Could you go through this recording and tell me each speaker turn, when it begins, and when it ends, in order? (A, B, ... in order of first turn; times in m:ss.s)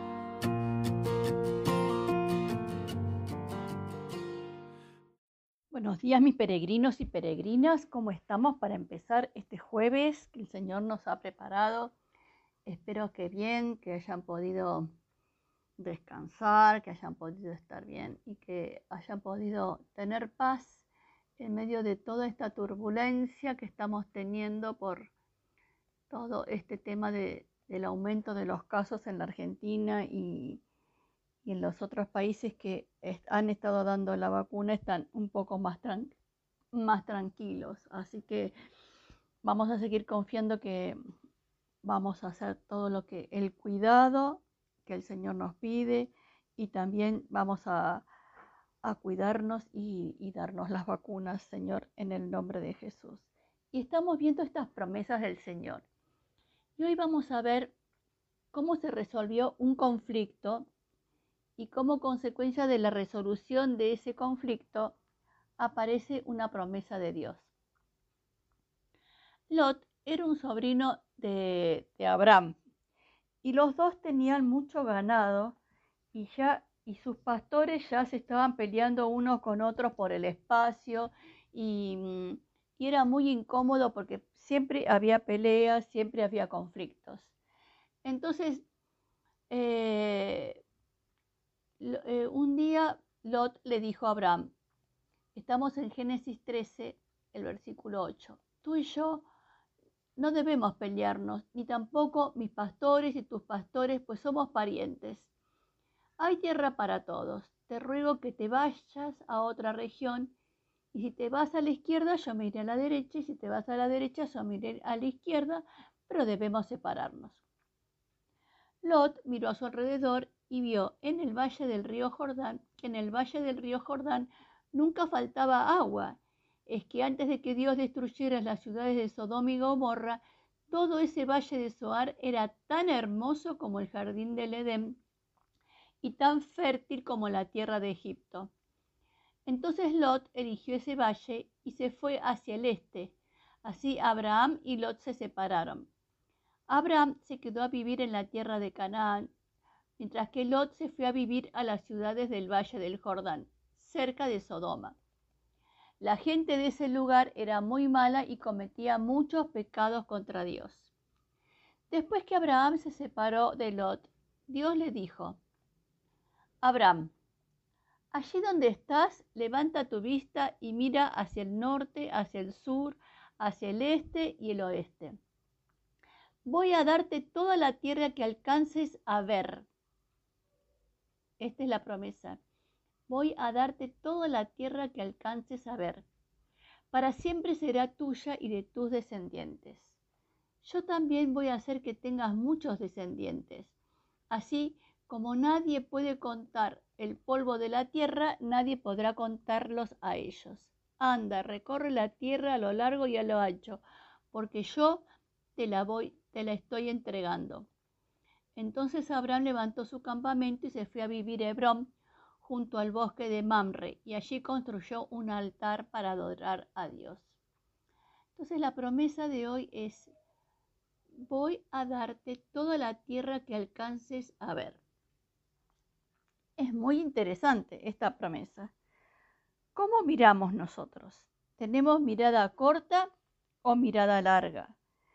0:05.7-0:11.9 A
0:12.6-0:14.9 A
0:15.8-0:20.8 A
0:21.4-0:25.1 A
0:26.1-0:30.6 A
0:31.4-0:36.1 A
0:36.7-0:38.5 A
0:39.4-0:41.0 A
0:41.8-0:48.1 A
0:48.8-0:55.8 A
0:56.8-0:57.7 A
0:58.5-1:00.7 A
1:01.6-1:05.0 A
1:05.6-1:07.5 A
1:09.5-1:12.6 A
1:13.4-1:15.6 A
1:16.1-1:27.3 A
1:28.0-1:28.6 A
1:29.5-1:30.6 A
1:31.8-1:34.5 A
1:35.3-1:39.3 A
1:40.2-1:45.3 A
1:46.2-1:50.3 A
1:50.9-1:57.4 A
1:58.8-2:15.0 A
2:16.0-2:18.5 A
2:19.4-2:25.9 A
2:26.7-2:29.3 A
2:30.0-2:35.0 A
2:36.0-2:40.9 A
2:41.9-2:45.4 A
2:46.6-2:47.1 A
2:48.1-2:55.2 A
2:56.4-2:59.7 A
3:01.4-3:02.4 A
3:03.1-3:06.0 A
3:06.9-3:10.0 A
3:10.6-3:13.7 A
3:14.3-3:25.0 A
3:25.6-3:27.7 A
3:28.6-3:31.9 A
3:32.4-3:37.3 A
3:38.4-3:40.1 A
3:41.3-3:44.8 A
3:46.6-3:48.7 A
3:49.7-3:53.1 A
3:53.6-3:54.8 A